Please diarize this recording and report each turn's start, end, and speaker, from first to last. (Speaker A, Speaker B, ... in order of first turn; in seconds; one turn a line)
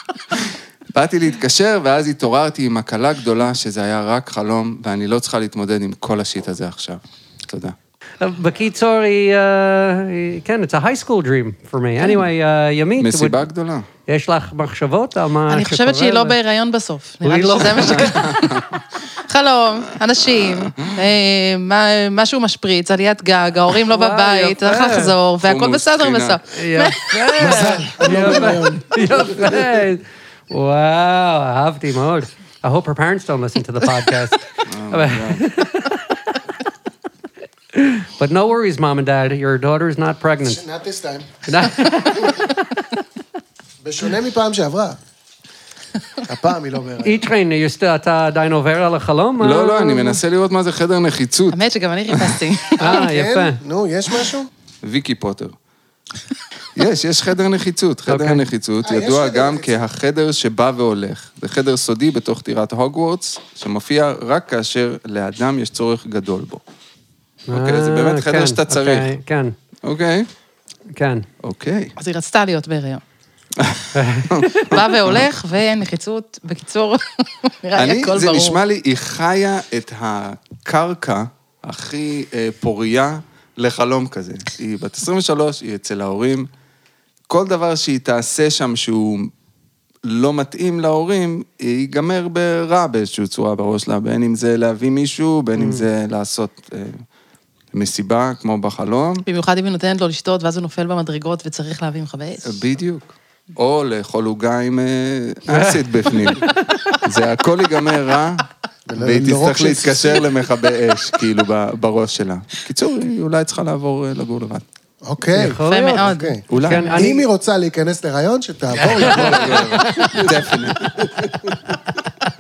Speaker A: 0.3-7.8
Speaker B: 8.2-13.4
Speaker A: 13.0-13.9
Speaker B: 14.1-16.4
Speaker C: 15.5-18.6
Speaker B: 17.2-18.3
Speaker A: 17.8-18.8
Speaker C: 19.2-27.4
Speaker B: 23.8-25.1
Speaker A: 25.4-26.4
Speaker B: 26.5-36.0
Speaker D: 27.4-29.7
Speaker A: 34.7-35.5
Speaker B: 37.7-40.6
Speaker D: 40.4-41.4
Speaker B: 41.5-42.5
Speaker D: 43.8-45.0
Speaker D: 46.3-47.2
Speaker B: 47.0-50.2
Speaker A: 49.4-51.6
Speaker C: 51.5-53.0
Speaker A: 52.1-52.4
Speaker B: 52.8-53.6
Speaker D: 52.8-54.5
Speaker A: 54.8-55.6
Speaker A: 56.8-66.6
Speaker B: 58.1-58.4
Speaker D: 58.8-59.8
Speaker B: 67.5-69.5
Speaker A: 67.5-69.1
Speaker A: 69.8-70.3
Speaker B: 70.9-71.3
Speaker A: 71.4-72.0
Speaker C: 72.0-73.0
Speaker A: 73.6-75.2
Speaker B: 74.0-74.6
Speaker C: 74.6-78.6
Speaker A: 77.7-86.5
Speaker A: 87.3-89.3
Speaker A: 90.0-97.0
Speaker B: 95.6-95.9
Speaker A: 97.7-99.2
Speaker C: 99.2-102.6
Speaker A: 102.5-114.7
Speaker B: 105.5-106.6
Speaker D: 108.9-110.2
Speaker D: 115.0-121.5
Speaker B: 115.4-117.2
Speaker C: 115.7-116.3
Speaker A: 116.5-117.1
Speaker A: 118.8-121.1
Speaker B: 118.8-120.3